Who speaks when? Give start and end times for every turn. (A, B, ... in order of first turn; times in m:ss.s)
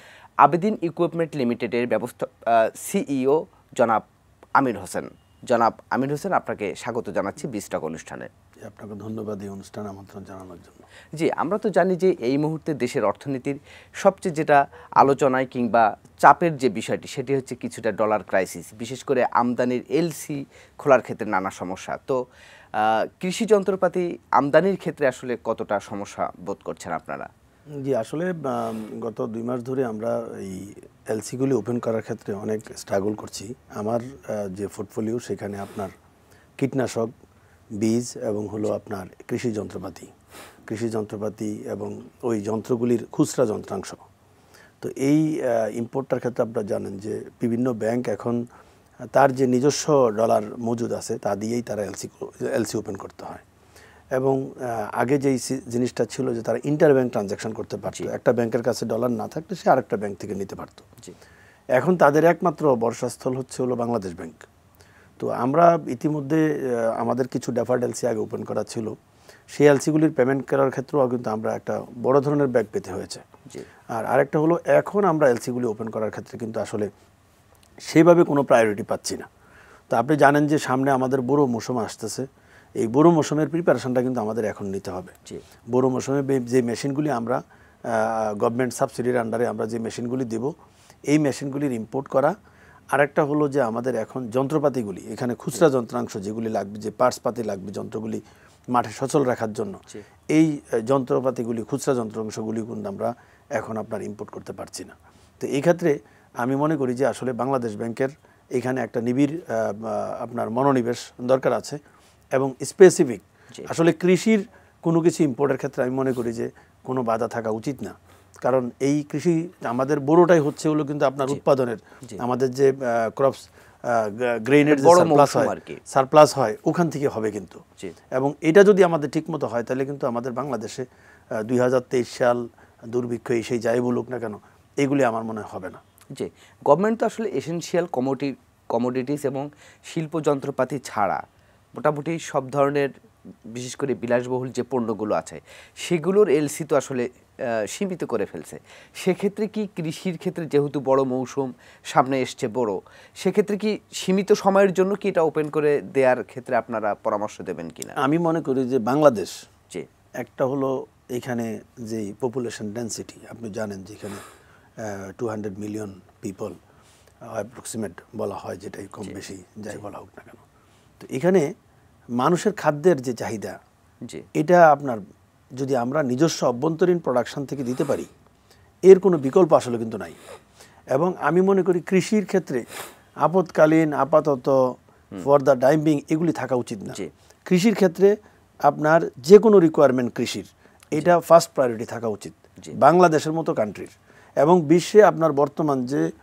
0:00.4-0:04.0 A
0:04.6-0:08.3 A
0:08.6-0:10.8 B
0:11.2-0:22.2 A
0:22.8-0:27.3 A
0:27.8-0:35.9 B
0:36.6-0:37.1 B
0:37.8-0:40.1 B
0:40.7-0:44.0 B
0:44.8-0:48.4 B
0:49.1-0:53.4 B
0:54.2-1:00.8 B
1:01.8-1:04.4 B
1:05.2-1:08.9 B
1:09.5-1:13.2 B
1:13.9-1:16.9 B
1:17.9-1:19.2 B
1:19.9-1:22.2 B
1:22.8-1:25.1 B
1:25.7-1:30.5 B
1:31.1-1:32.3 B
1:32.9-1:39.8 B
1:40.3-1:51.8 B
1:52.3-2:07.6 B
2:04.6-2:05.8 A
2:08.1-2:10.8 B
2:11.4-2:15.8 B
2:16.1-2:21.2 A
2:21.7-2:22.9 A
2:23.5-2:27.0 A
2:27.7-2:38.0 A
2:38.0-2:39.3 B
2:40.2-2:44.2 B
2:44.8-2:46.5 B
2:47.3-2:50.4 B
2:51.0-2:51.4 B
2:52.2-2:53.6 B
2:54.4-2:55.0 B
2:55.6-2:58.1 B
2:58.9-3:00.2 B
3:00.9-3:02.6 B
3:03.2-3:04.6 B
3:05.2-3:08.1 B
3:08.6-3:16.0 B